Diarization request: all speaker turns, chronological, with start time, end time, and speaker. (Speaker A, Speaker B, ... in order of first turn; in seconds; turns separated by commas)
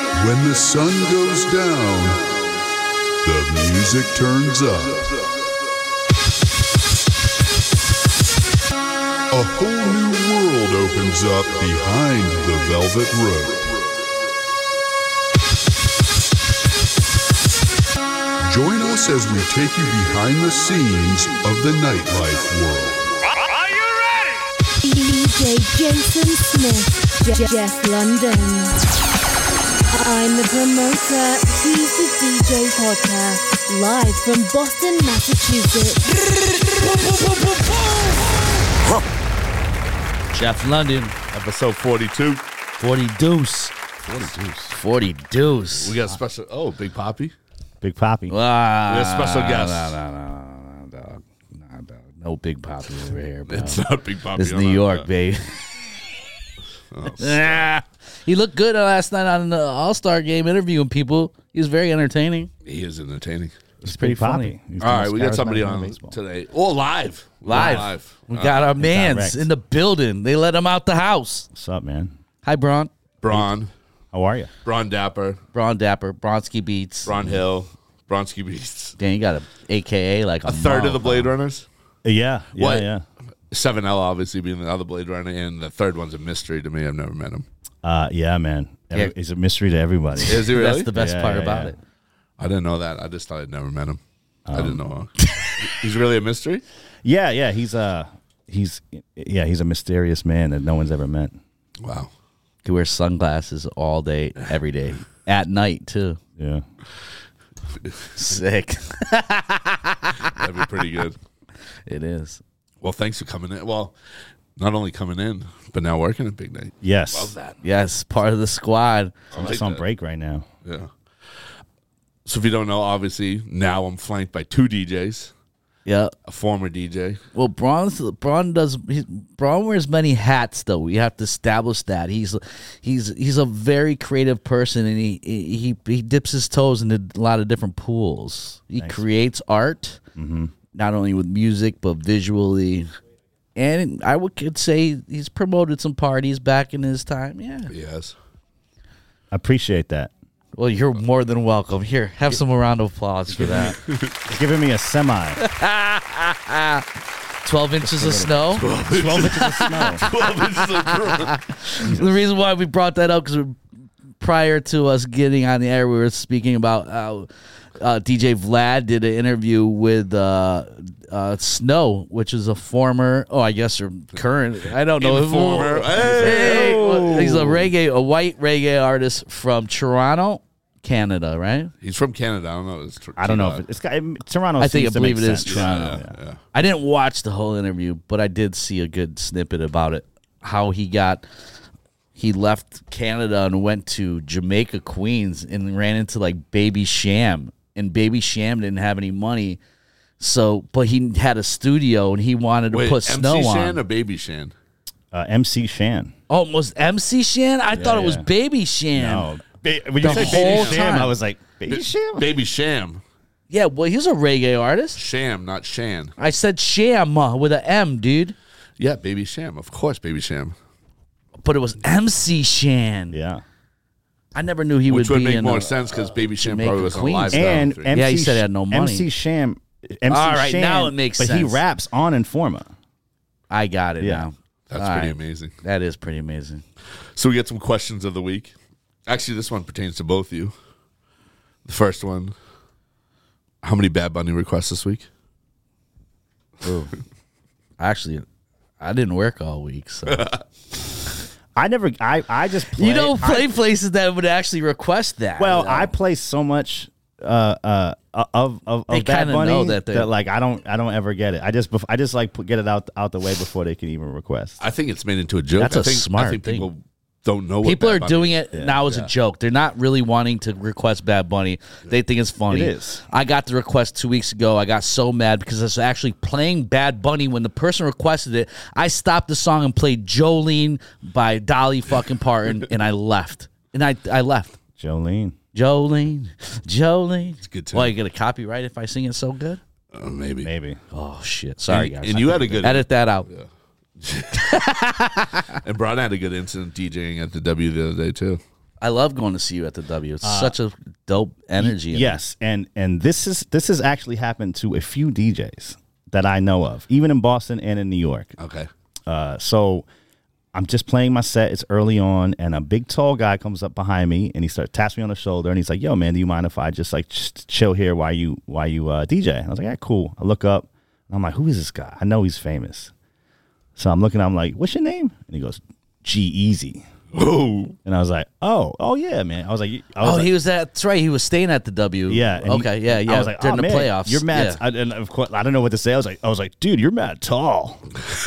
Speaker A: 0.1-2.4, Speaker A: 3.2-5.2, Speaker A: 9.3-13.8, Speaker A: 18.4-23.1, Speaker B: 24.8-28.8, Speaker B: 29.9-36.1, Speaker C: 40.3-41.2, Speaker D: 41.3-42.4, Speaker C: 42.8-43.8, Speaker D: 44.1-44.7, Speaker C: 44.7-46.1, Speaker D: 45.7-47.3, Speaker E: 47.8-48.3, Speaker C: 48.3-55.6, Speaker D: 48.9-50.0, Speaker D: 53.5-55.1, Speaker D: 56.9-57.7, Speaker C: 57.1-62.5, Speaker D: 62.6-63.5, Speaker E: 63.8-66.2, Speaker C: 63.8-64.5, Speaker D: 64.8-68.7, Speaker E: 67.5-67.9, Speaker C: 67.5-71.5, Speaker E: 68.8-69.5, Speaker E: 71.5-72.1, Speaker C: 72.4-72.9, Speaker D: 73.2-73.7, Speaker E: 74.1-74.5, Speaker D: 74.6-75.4, Speaker C: 75.5-77.1, Speaker D: 77.0-79.0, Speaker C: 79.0-81.3, Speaker D: 80.5-81.7, Speaker E: 82.0-83.0, Speaker D: 82.5-82.9, Speaker D: 83.5-87.5, Speaker E: 87.8-91.8, Speaker D: 90.3-90.9, Speaker C: 90.3-91.8, Speaker D: 92.4-94.0, Speaker E: 94.5-94.8, Speaker D: 94.5-96.6, Speaker C: 95.2-95.5, Speaker E: 97.0-101.4, Speaker D: 101.8-102.1, Speaker C: 102.7-106.2, Speaker E: 106.4-106.6, Speaker D: 107.8-108.1, Speaker C: 108.2-110.4, Speaker D: 110.3-111.2, Speaker C: 111.9-112.4, Speaker D: 112.8-113.9, Speaker D: 114.6-117.6, Speaker E: 116.8-117.3, Speaker C: 117.6-119.2, Speaker D: 119.3-119.8, Speaker E: 119.3-120.5, Speaker D: 120.7-120.9, Speaker D: 122.3-125.3, Speaker C: 125.9-126.1, Speaker D: 126.3-127.2, Speaker C: 127.3-140.0, Speaker E: 140.2-140.5, Speaker C: 140.7-142.9, Speaker C: 143.6-147.7, Speaker D: 147.7-148.2, Speaker E: 149.3-150.1, Speaker C: 150.6-153.8, Speaker E: 153.3-155.4, Speaker D: 153.8-154.2, Speaker C: 155.4-156.8, Speaker C: 157.4-163.6, Speaker E: 157.8-160.1, Speaker D: 158.6-161.4, Speaker E: 161.9-162.1, Speaker C: 164.2-181.7, Speaker D: 175.0-177.6, Speaker E: 176.0-177.4, Speaker D: 181.8-183.6, Speaker E: 183.2-186.2, Speaker C: 184.6-185.7, Speaker D: 185.4-186.4, Speaker C: 186.5-191.3, Speaker C: 192.2-199.6, Speaker C: 200.2-203.8, Speaker D: 202.7-204.5, Speaker E: 205.1-206.1, Speaker C: 206.3-209.3, Speaker E: 207.7-208.3, Speaker E: 208.9-212.3, Speaker C: 210.0-211.1, Speaker D: 210.0-210.9, Speaker D: 211.7-213.0, Speaker C: 213.5-215.0, Speaker D: 215.0-216.1, Speaker C: 216.2-218.3, Speaker D: 218.8-220.6, Speaker C: 221.4-223.2, Speaker E: 223.1-223.4, Speaker C: 224.3-229.1, Speaker D: 224.9-228.0, Speaker E: 227.3-232.7, Speaker C: 230.1-231.6, Speaker C: 233.5-236.6, Speaker E: 234.0-234.3, Speaker D: 234.7-235.5, Speaker D: 237.2-238.5, Speaker D: 239.1-240.5, Speaker D: 241.7-242.3, Speaker D: 243.6-245.1, Speaker C: 246.6-246.9, Speaker C: 247.8-248.3, Speaker C: 248.8-250.3, Speaker D: 250.1-250.4, Speaker E: 251.6-253.5, Speaker C: 252.7-255.9, Speaker E: 255.4-264.6, Speaker C: 258.9-260.1, Speaker D: 264.6-269.1, Speaker C: 265.6-266.7, Speaker C: 267.6-284.6, Speaker E: 272.5-273.0, Speaker E: 284.8-285.4, Speaker C: 285.5-289.6, Speaker D: 287.4-287.9, Speaker D: 289.9-290.5, Speaker E: 290.4-290.8, Speaker C: 290.9-293.3, Speaker D: 291.7-293.5, Speaker D: 294.0-294.6, Speaker C: 294.3-295.5, Speaker D: 295.6-298.4, Speaker C: 298.8-302.2, Speaker E: 300.2-300.6, Speaker E: 301.6-308.3, Speaker D: 308.4-308.7, Speaker E: 309.1-309.9, Speaker E: 310.5-322.9, Speaker E: 323.8-326.9, Speaker D: 327.1-327.8, Speaker E: 327.9-330.3, Speaker C: 330.0-334.6, Speaker E: 332.1-337.9